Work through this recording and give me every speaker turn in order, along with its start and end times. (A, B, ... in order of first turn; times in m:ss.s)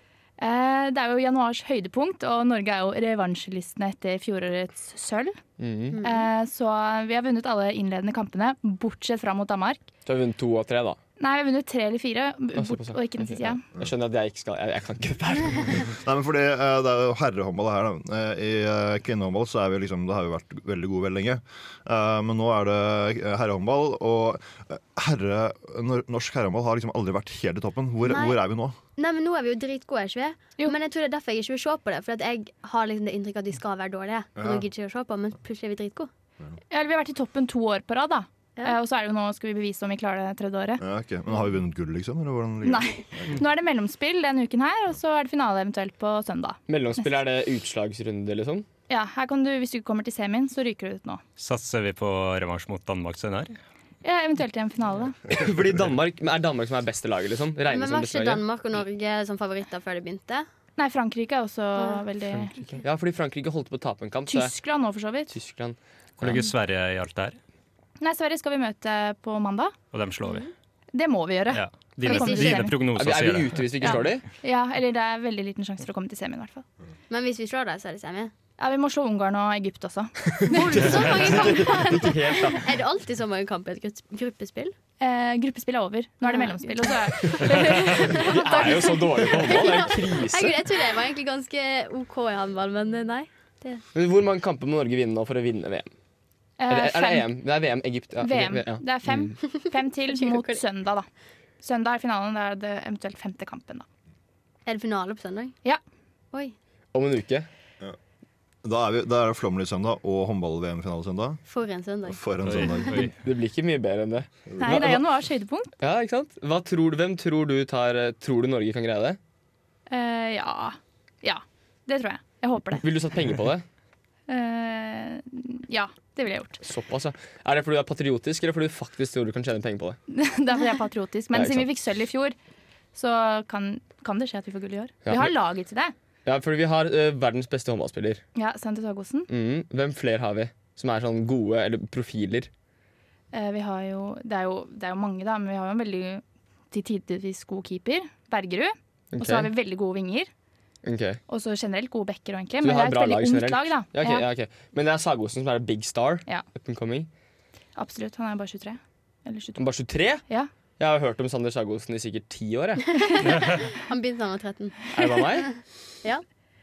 0:00.4-0:05.4 A
0:05.6-0:06.0 B
0:06.0-0:06.3 C
0:06.0-0:09.8 A
0:10.1-0:11.0 B
0:11.2-0:13.6 A
0:12.6-0:15.9 B
0:15.9-0:28.8 D
0:28.1-0:28.4 C
0:29.0-0:36.1 C
0:34.4-0:34.7 D
0:36.7-0:40.8 A
0:40.8-0:43.4 D
0:42.6-0:47.1 A
0:46.7-0:48.7 B
0:48.9-0:51.2 A
0:51.4-0:53.6 E
0:54.0-0:55.2 A
0:55.3-0:58.4 B
0:57.7-1:00.5 C
1:00.8-1:02.6 A
1:02.3-1:04.5 B
1:04.3-1:05.3 A
1:05.3-1:06.4 B
1:06.2-1:07.4 E
1:08.0-1:09.8 A
1:09.9-1:10.5 E
1:10.2-1:10.5 C
1:10.9-1:12.8 A
1:11.5-1:14.0 E
1:12.1-1:12.6 C
1:12.9-1:14.2 B
1:13.8-1:16.6 A
1:17.1-1:18.3 C
1:18.6-1:20.9 A
1:20.3-1:22.7 B
1:20.5-1:24.8 C
1:25.0-1:28.8 A
1:26.2-1:33.8 C
1:28.1-1:30.6 B
1:33.9-1:35.9 B
1:36.6-1:37.3 A
1:36.7-1:39.4 B
1:38.2-1:41.1 A
1:39.5-1:40.6 C
1:41.6-1:43.8 A
1:44.7-1:45.6 C
1:46.9-1:47.5 B
1:48.6-1:51.4 D
1:51.5-1:52.7 C
1:52.1-1:53.1 D
1:52.4-1:53.1 E
1:53.1-1:55.0 B
1:54.5-1:54.9 D
1:54.6-1:55.7 A
1:55.8-1:59.2 B
1:59.9-2:02.8 A
2:02.8-2:03.6 B
2:04.3-2:06.6 A
2:06.6-2:10.0 B
2:10.1-2:12.4 A
2:11.3-2:11.7 B
2:12.9-2:15.9 A
2:15.0-2:15.3 B
2:16.2-2:18.2 B
2:18.4-2:19.3 A
2:19.3-2:22.5 B
2:23.3-2:30.3 A
2:29.1-2:29.5 B
2:30.8-2:31.2 B
2:31.3-2:34.3 A
2:32.6-2:37.1 B
2:37.8-2:39.8 A
2:39.6-2:40.2 B
2:40.8-2:42.8 B
2:43.0-2:44.8 C
2:44.9-2:45.5 B
2:45.5-2:46.2 C